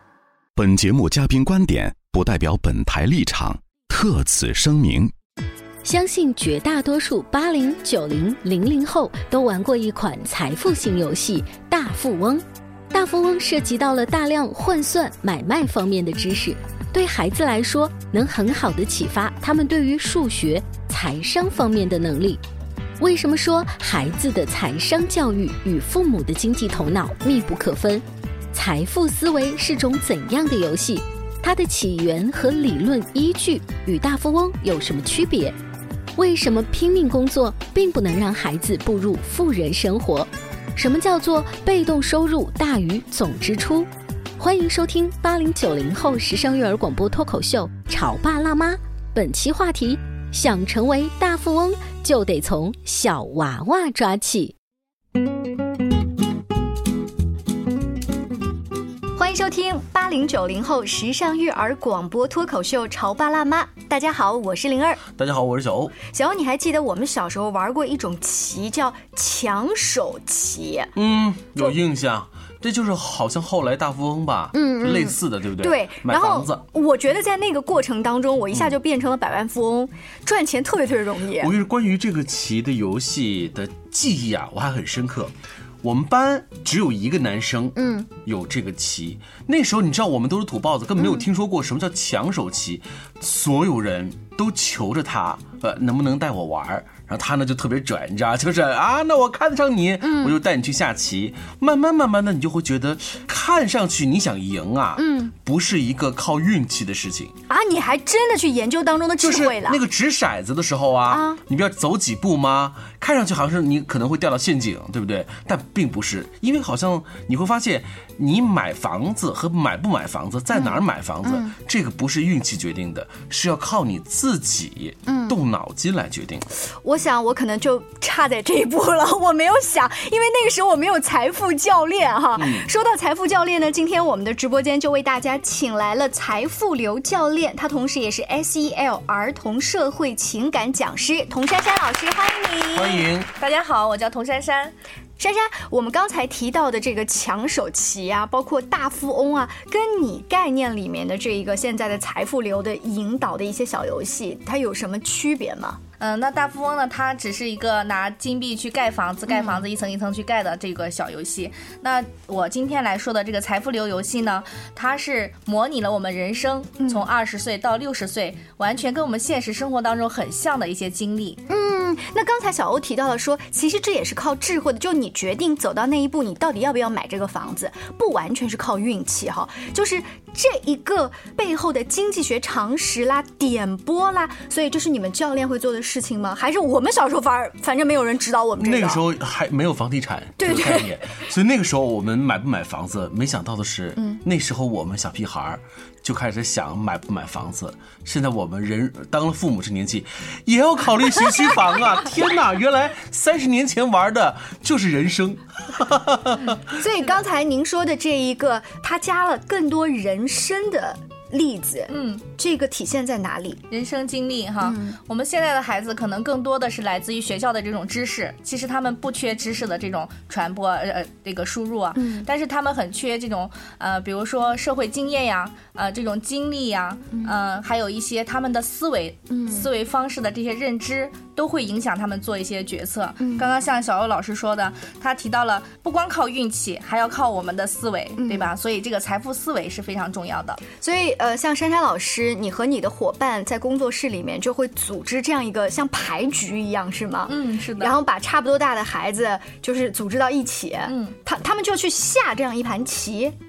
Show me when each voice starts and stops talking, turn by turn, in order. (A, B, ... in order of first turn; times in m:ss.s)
0:00.5-0:05.1 A
0:05.8-0:22.4 B
0:23.0-0:35.6 B
0:36.2-0:54.5 B
0:59.2-1:05.0 C
1:05.1-1:06.0 D
1:06.1-1:10.9 C
1:11.0-1:16.6 D
1:14.5-1:21.5 C
1:21.4-1:47.3 D
1:27.7-1:28.1 C
1:40.0-1:40.4 C
1:45.0-1:45.3 C
1:47.5-1:49.8 C
1:49.2-2:06.5 D
1:51.1-1:51.4 C
2:00.5-2:01.5 C
2:05.0-2:05.4 C
2:06.8-2:23.1 C
2:12.4-2:12.7 D
2:22.7-2:23.3 D
2:23.4-2:24.7 E
2:25.2-2:35.8 C
2:36.0-2:51.4 E
2:39.3-2:39.6 C
2:46.8-2:47.0 C
2:51.5-3:09.0 C
3:08.6-3:26.6 D
3:10.4-3:10.9 C
3:26.7-3:33.6 C
3:31.9-3:32.2 E
3:33.7-4:00.6 E
3:34.6-3:35.0 C
3:41.9-3:42.3 C
3:49.3-3:49.7 C
3:53.2-3:53.5 C
3:58.2-3:58.5 C
4:00.8-4:13.3 C
4:07.3-4:07.9 E
4:10.9-4:11.1 E